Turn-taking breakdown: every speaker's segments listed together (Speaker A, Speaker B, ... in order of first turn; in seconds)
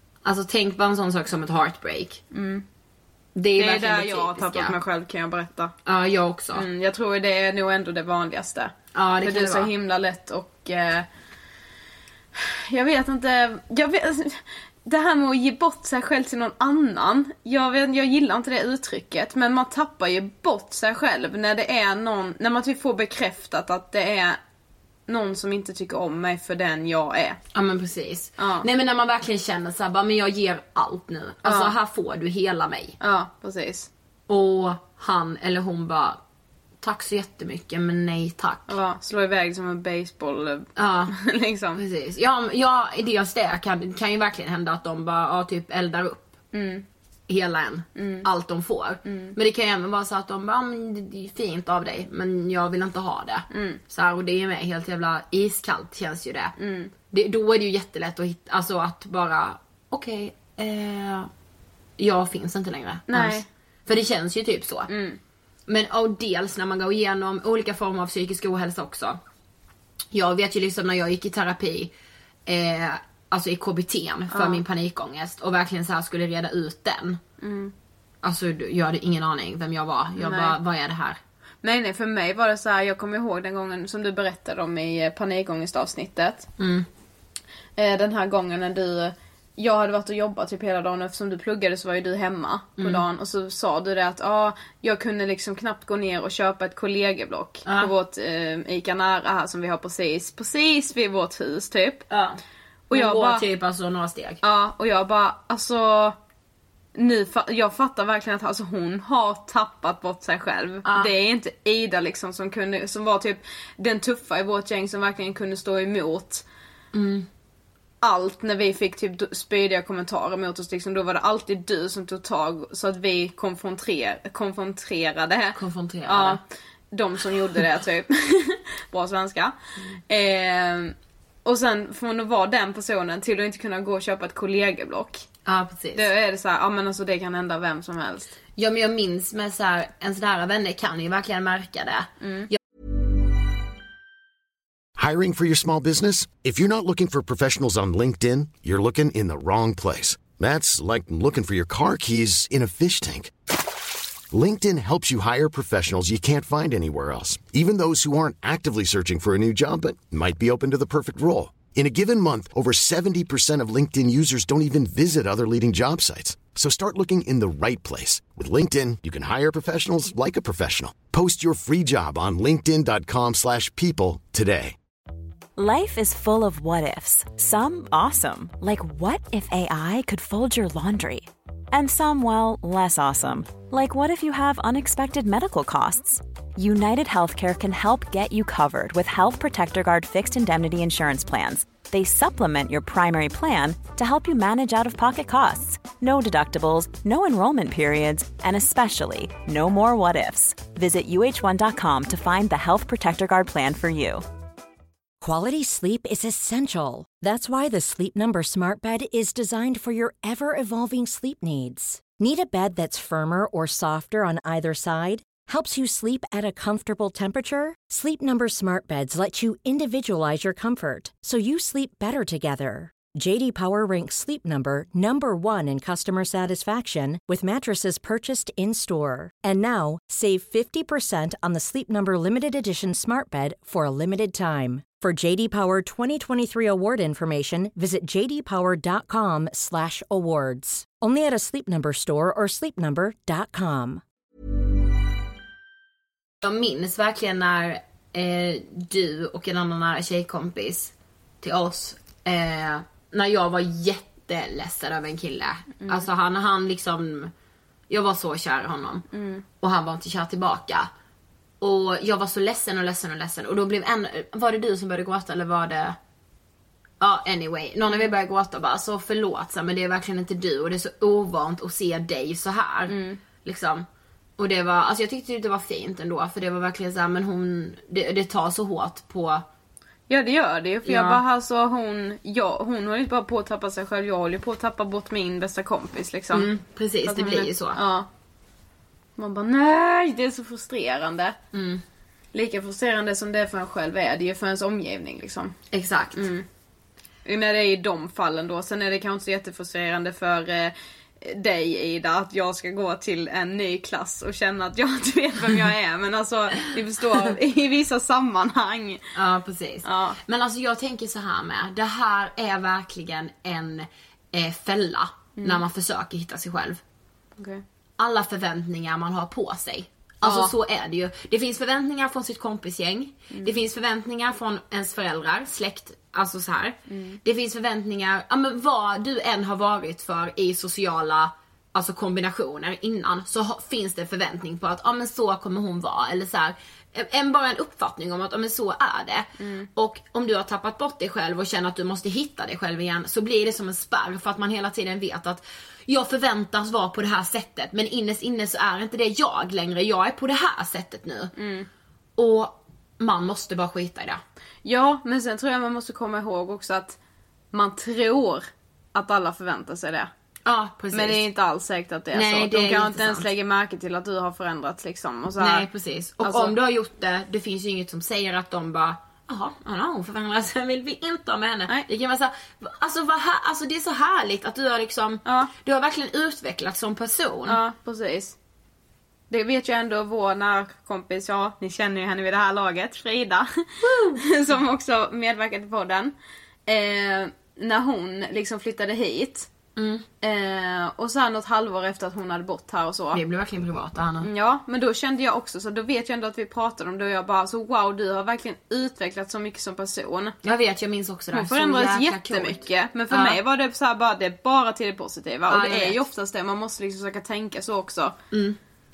Speaker A: 0.2-2.2, 3.3-4.8, 5.8-6.7, 8.9-9.7, 27.5-33.0, 34.3-36.2, 36.8-38.8, 40.8-41.1, 41.7-46.3, 47.3-56.5, 57.1-61.3, 62.0-64.9, 65.7-69.2, 70.1-71.9, 72.5-77.2, 78.2-81.2, 86.6-86.9, 92.8-93.0, 97.7-97.9, 102.1-102.4, 102.9-104.4, 110.8-111.1, 116.9-117.3, 125.5-126.4, 135.4-136.1, 138.6-142.6, 246.4-257.3, 257.9-259.1, 259.6-260.9, 261.6-266.0, 267.0-273.9, 274.4-279.4, 280.9-281.2, 286.3-287.8, 291.5-291.8, 295.7-296.3, 309.1-316.8, 318.0-351.3, 352.2-354.2, 360.4-361.2, 362.1-363.3, 365.4-377.6, 383.8-384.2, 389.8-390.1, 393.1-394.3, 400.4-403.4, 405.5-406.0, 408.3-408.6
Speaker B: 2.3-2.6, 3.6-5.7, 6.5-11.1, 12.3-24.4, 25.1-27.4, 28.4-28.7, 31.4-31.7, 33.0-33.9, 38.7-41.8, 46.5-46.8, 48.0-48.3, 49.1-49.4, 53.5-53.8, 56.6-56.9, 63.1-63.5, 64.9-65.2, 74.3-74.6, 77.4-77.7, 80.2-80.5, 81.6-86.5, 87.8-102.0, 102.9-103.4, 104.4-106.2, 106.9-116.4, 118.0-129.5, 130.1-135.2, 135.9-138.3, 142.2-142.5, 259.1-259.4, 272.9-273.2, 280.1-286.5, 287.0-288.1, 289.2-291.4, 292.3-295.5, 296.1-296.4, 297.2-309.1, 309.8-310.2, 315.4-315.6, 317.4-317.6, 320.2-320.5, 326.9-327.2, 339.4-339.7, 351.4-351.7, 354.6-357.0, 357.5-360.1, 360.9-365.7, 366.2-366.5, 375.2-375.5, 377.5-378.4, 379.3-386.1, 386.7-389.5, 390.2-393.2, 394.2-400.4, 401.3-408.1
Speaker C: 145.0-153.3, 154.3-174.7
Speaker D: 175.6-204.2
Speaker E: 205.2-244.0